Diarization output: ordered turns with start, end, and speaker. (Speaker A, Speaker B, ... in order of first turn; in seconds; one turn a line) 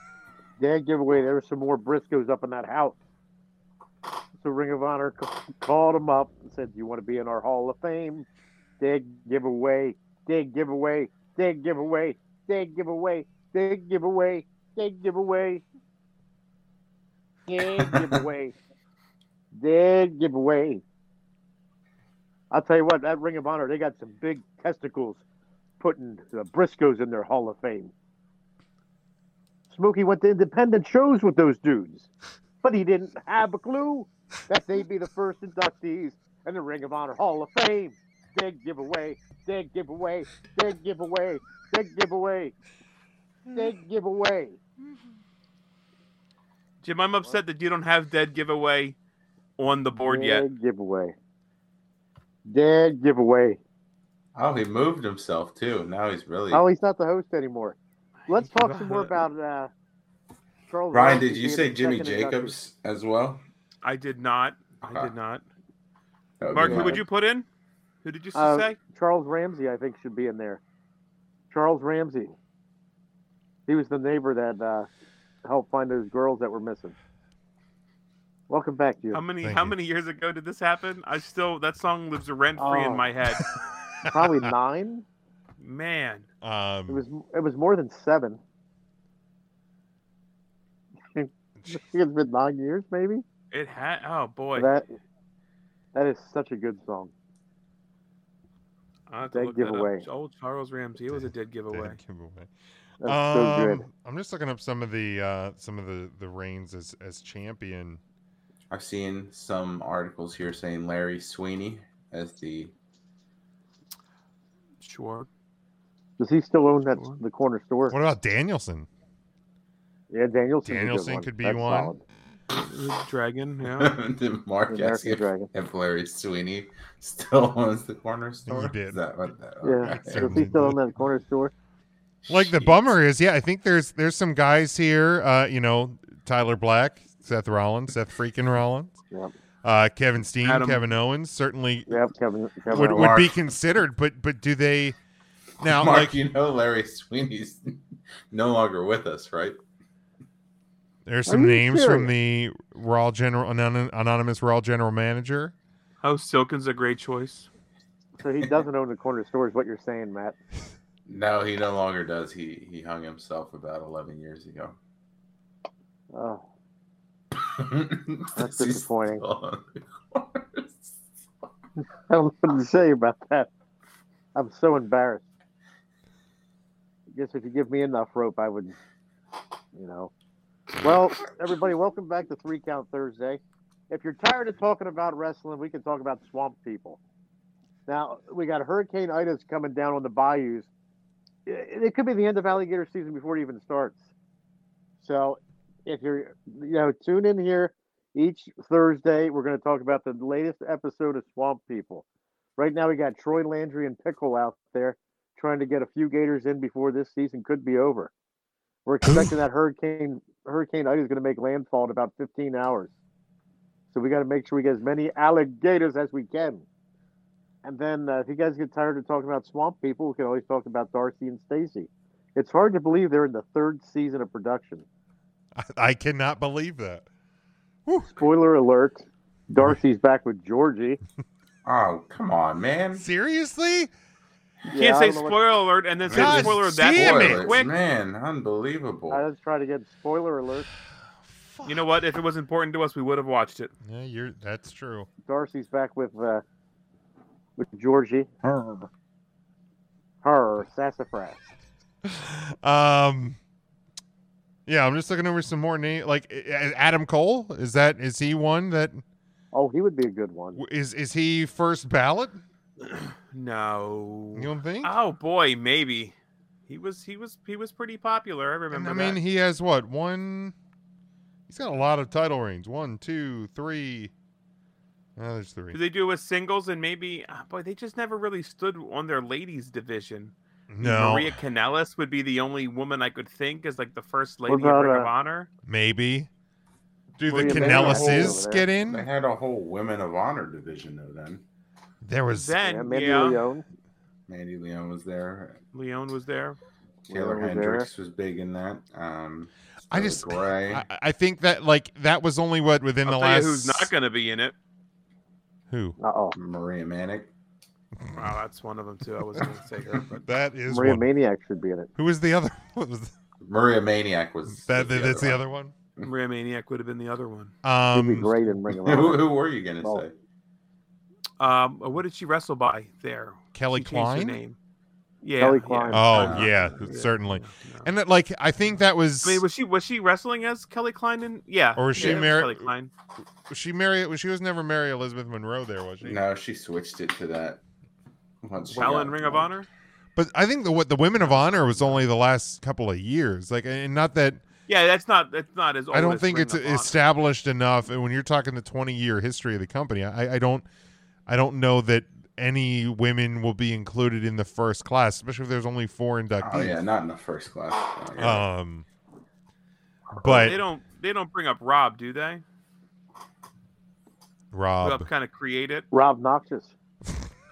Speaker A: 0.6-3.0
Speaker A: 4.4-8.3
Speaker A: 8.8-15.6
Speaker A: 17.5-18.6
Speaker A: 19.5-20.8
Speaker A: 22.5-25.2
Speaker A: 25.8-27.9
Speaker A: 29.7-32.1
Speaker A: 32.6-42.5
Speaker A: 43.5-44.6
Speaker B: 46.8-49.0
Speaker B: 49.6-50.5
Speaker A: 50.0-51.1
Speaker A: 52.5-53.6
Speaker C: 54.4-56.6
Speaker A: 56.5-57.8
Speaker A: 58.3-59.7
Speaker B: 58.3-59.1
Speaker A: 60.7-62.5
Speaker C: 60.9-63.4
Speaker B: 63.8-65.5
Speaker C: 64.8-65.1
Speaker C: 66.4-67.0
Speaker B: 66.5-67.5
Speaker A: 66.6-67.0
Speaker B: 68.0-68.8
Speaker A: 68.3-70.6
Speaker A: 71.5-72.3
Speaker A: 73.7-74.9
Speaker A: 75.5-77.0
Speaker A: 78.5-79.2
Speaker B: 79.1-83.5
Speaker D: 79.4-79.8
Speaker A: 82.6-83.1
Speaker D: 84.0-84.5
Speaker A: 84.1-85.0
Speaker B: 85.6-86.3
Speaker D: 86.4-87.0
Speaker A: 86.9-88.4
Speaker A: 91.1-93.2
Speaker B: 93.5-94.7
Speaker A: 94.5-94.9
Speaker A: 95.9-97.1
Speaker B: 99.1-102.0
Speaker A: 99.3-100.0
Speaker D: 101.1-102.5
Speaker A: 103.0-103.9
Speaker D: 103.0-108.0
Speaker C: 108.7-112.7
Speaker B: 114.8-115.3
Speaker A: 116.2-118.0
Speaker D: 117.9-118.9
Speaker A: 120.1-122.0
Speaker D: 120.7-121.9
Speaker B: 122.5-123.9
Speaker C: 123.6-130.5
Speaker A: 124.7-125.5
Speaker D: 128.5-129.0
Speaker A: 129.6-131.5
Speaker D: 129.8-130.8
Speaker C: 132.2-132.8
Speaker D: 132.3-139.0
Speaker D: 139.6-142.0
Speaker B: 140.4-140.9
Speaker A: 141.9-143.2
Speaker C: 142.7-143.4
Speaker D: 142.7-145.0
Speaker D: 145.6-146.2
Speaker C: 145.6-149.6
Speaker D: 151.1-155.5
Speaker A: 151.3-152.1
Speaker B: 156.0-157.5
Speaker A: 158.2-160.4
Speaker C: 161.1-164.8
Speaker A: 166.1-166.4
Speaker C: 167.4-171.0
Speaker A: 168.4-169.2
Speaker A: 172.1-173.5
Speaker A: 174.3-175.2
Speaker A: 177.1-178.8
Speaker A: 179.7-180.1
Speaker A: 180.8-187.0
Speaker A: 187.9-190.7
Speaker A: 191.5-194.0
Speaker A: 195.0-202.1
Speaker A: 202.6-208.1
Speaker A: 208.9-212.9
Speaker A: 213.9-216.7
Speaker A: 217.6-224.9
Speaker D: 225.6-227.1
Speaker D: 227.9-228.2
Speaker A: 228.1-231.0
Speaker C: 231.7-233.0
Speaker D: 233.0-233.9
Speaker A: 234.7-235.4
Speaker B: 234.7-237.7
Speaker D: 236.1-237.6
Speaker C: 236.1-239.2
Speaker A: 239.1-240.7
Speaker D: 241.3-241.8
Speaker B: 241.7-243.7
Speaker D: 243.8-245.1
Speaker A: 245.3-246.4
Speaker A: 247.6-248.3
Speaker C: 248.4-248.9
Speaker A: 250.2-251.4
Speaker D: 252.1-253.4
Speaker D: 254.7-259.0
Speaker A: 259.5-260.6
Speaker D: 260.6-262.4
Speaker B: 262.8-266.1
Speaker D: 264.3-264.9
Speaker B: 266.7-269.2
Speaker D: 268.7-270.6
Speaker D: 271.5-274.1
Speaker D: 275.2-275.8
Speaker B: 275.7-285.5
Speaker D: 280.7-281.4
Speaker A: 284.5-285.1
Speaker D: 285.7-286.3
Speaker D: 287.2-289.1
Speaker A: 287.3-288.7
Speaker C: 287.4-291.4
Speaker D: 292.0-292.6
Speaker B: 292.3-293.4
Speaker A: 292.6-293.7
Speaker C: 294.3-295.6
Speaker B: 295.7-296.6
Speaker A: 297.1-297.9
Speaker C: 297.1-300.9
Speaker D: 299.9-303.9
Speaker B: 303.1-304.6
Speaker D: 305.7-306.0
Speaker A: 306.0-306.4
Speaker C: 306.4-307.3
Speaker B: 308.1-310.2
Speaker D: 310.2-311.1
Speaker A: 310.7-311.9
Speaker D: 312.0-313.1
Speaker C: 313.4-315.4
Speaker D: 314.5-315.7
Speaker B: 316.0-317.5
Speaker D: 317.6-318.3
Speaker A: 317.9-319.2
Speaker C: 318.7-320.1
Speaker B: 321.4-324.6
Speaker D: 323.6-324.4
Speaker B: 325.2-327.9
Speaker A: 325.4-326.1
Speaker D: 325.9-329.4
Speaker C: 326.1-326.9
Speaker B: 329.2-332.9
Speaker D: 331.8-332.7
Speaker C: 332.0-332.2
Speaker D: 333.5-336.2
Speaker C: 336.0-337.6
Speaker C: 338.4-339.5
Speaker B: 338.7-339.7
Speaker D: 340.2-344.4
Speaker B: 341.2-342.1
Speaker B: 344.7-346.9
Speaker D: 345.9-350.7
Speaker D: 351.3-356.8
Speaker C: 356.4-358.5
Speaker D: 358.2-358.9
Speaker D: 360.2-360.6
Speaker B: 360.2-362.4
Speaker D: 364.5-365.1
Speaker B: 364.8-365.9
Speaker A: 365.9-366.8